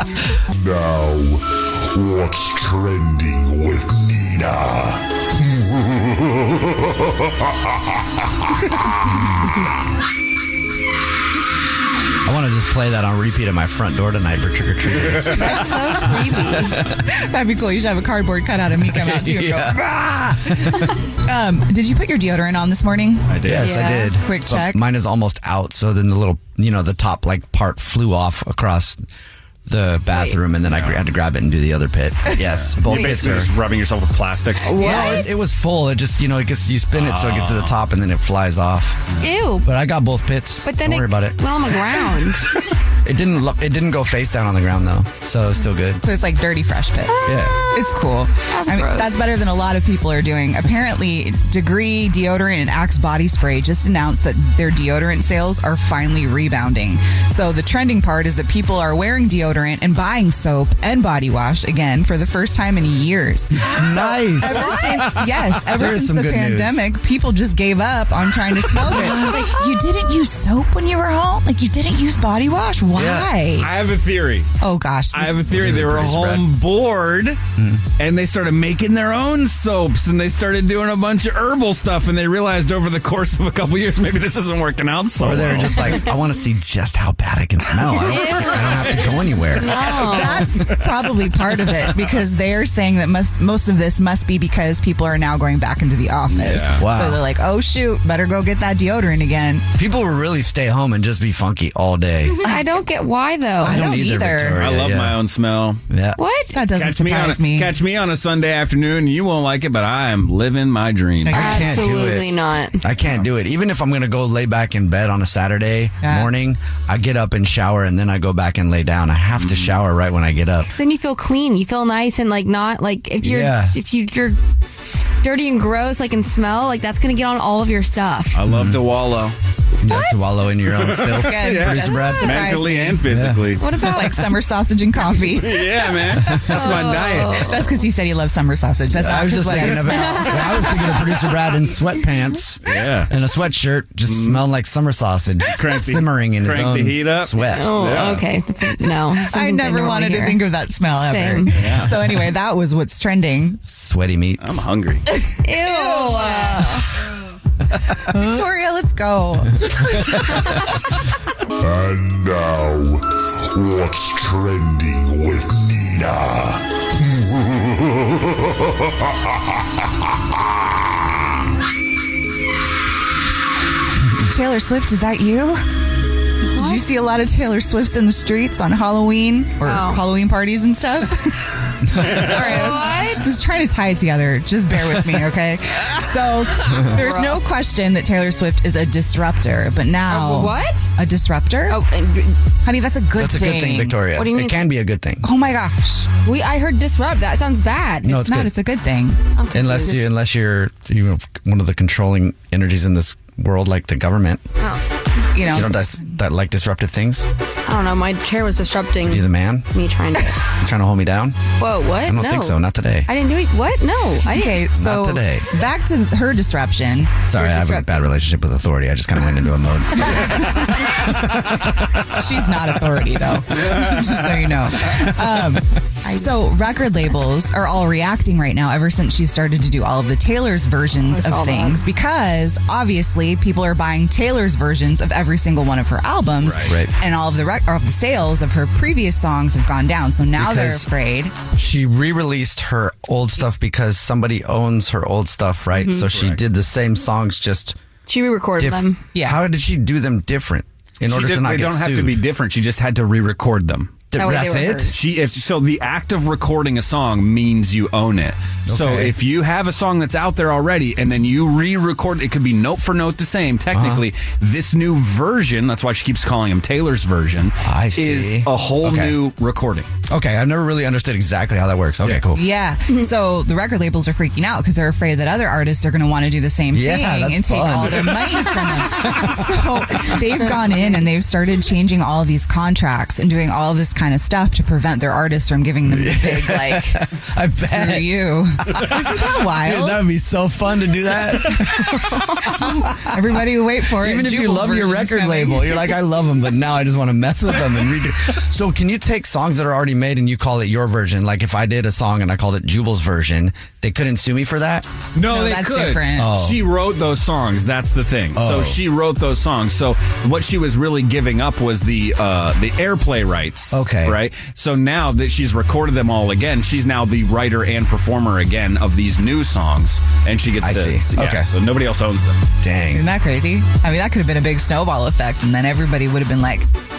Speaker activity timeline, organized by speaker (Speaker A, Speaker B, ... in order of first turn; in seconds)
Speaker A: 0.5-6.3, 161.6-167.8
Speaker B: 12.2-15.8, 16.3-16.8, 18.9-20.9, 23.4-29.0, 29.7-33.5, 34.8-39.1, 39.6-41.5, 42.5-46.0, 47.2-47.6, 63.6-66.8, 68.8-69.5, 73.0-73.3, 75.4-76.5, 77.6-77.8, 85.2-90.9, 91.7-91.9, 96.8-97.2, 99.8-102.5, 103.6-105.2, 105.9-106.2, 111.3-120.7, 123.2-123.8, 128.5-128.8, 129.8-133.5, 136.2-136.6, 138.9-148.0, 153.7-154.6, 193.2-195.3, 198.1-198.5, 199.5-204.4, 205.5-207.3, 209.0-209.7, 210.6-211.4, 212.0-213.1, 214.7-215.5, 217.3-221.8, 236.7-236.9, 240.3-240.9, 241.5-247.8, 248.6-252.2, 254.1-254.9, 258.7-259.2, 263.7-264.0, 267.6-269.2, 270.1-272.4, 276.7-279.5, 285.9-292.6, 294.0-304.9, 306.1-306.6, 308.3-308.8, 313.7-314.2, 320.6-321.5, 322.6-323.0
Speaker C: 15.0-15.5, 23.3-23.7, 30.6-31.1, 32.4-34.8, 36.9-37.8, 64.5-65.4, 73.6-74.5, 75.1-77.4, 78.0-86.0, 96.3-96.8, 104.6-105.8, 106.7-111.5, 113.0-113.3, 119.3-119.7, 128.3-129.4, 130.7-133.9, 135.3-137.8, 139.5-139.8, 142.6-143.1, 144.1-144.4, 145.5-148.3, 151.5-152.0, 154.4-155.0, 236.4-236.7, 246.1-246.4, 251.0-254.0, 254.9-269.9, 272.0-272.3, 305.1-322.4
Speaker D: 15.3-16.8, 23.6-24.1, 30.1-30.4, 32.9-33.4, 34.6-35.4, 39.2-39.7, 40.6-42.5, 47.0-47.5, 48.5-49.2, 88.0-89.0, 89.6-90.5, 102.4-103.9, 106.1-106.7, 111.3-112.8, 120.6-128.4, 129.9-130.2, 133.6-134.3, 136.5-137.6, 140.1-140.9, 147.5-150.4, 151.0-151.5, 155.2-156.9, 176.5-176.9, 179.6-180.0, 182.2-183.3, 186.9-187.4, 190.1-190.9, 191.7-192.4, 194.1-194.6, 196.2-198.2, 199.3-200.0, 207.7-210.6, 211.6-214.7, 217.3-218.1, 231.0-231.9, 245.7-246.1, 248.1-249.0, 254.1-255.0
Speaker E: 15.7-16.1, 16.9-24.8, 34.8-35.3, 46.0-73.7, 74.6-75.4, 89.7-99.7, 103.6-104.6, 106.5-107.7, 111.2-112.0, 116.0-116.3, 131.2-133.1, 133.7-135.6, 136.5-141.0, 149.1-153.6, 155.5-156.8, 158.1-160.4, 174.3-175.6, 176.5-191.8, 192.6-194.0, 195.2-196.1, 198.0-199.2, 205.3-206.1, 214.2-217.3, 220.2-220.6, 222.1-241.3, 249.1-249.4, 272.3-290.0, 291.4-295.9, 305.3-306.3, 322.9-326.7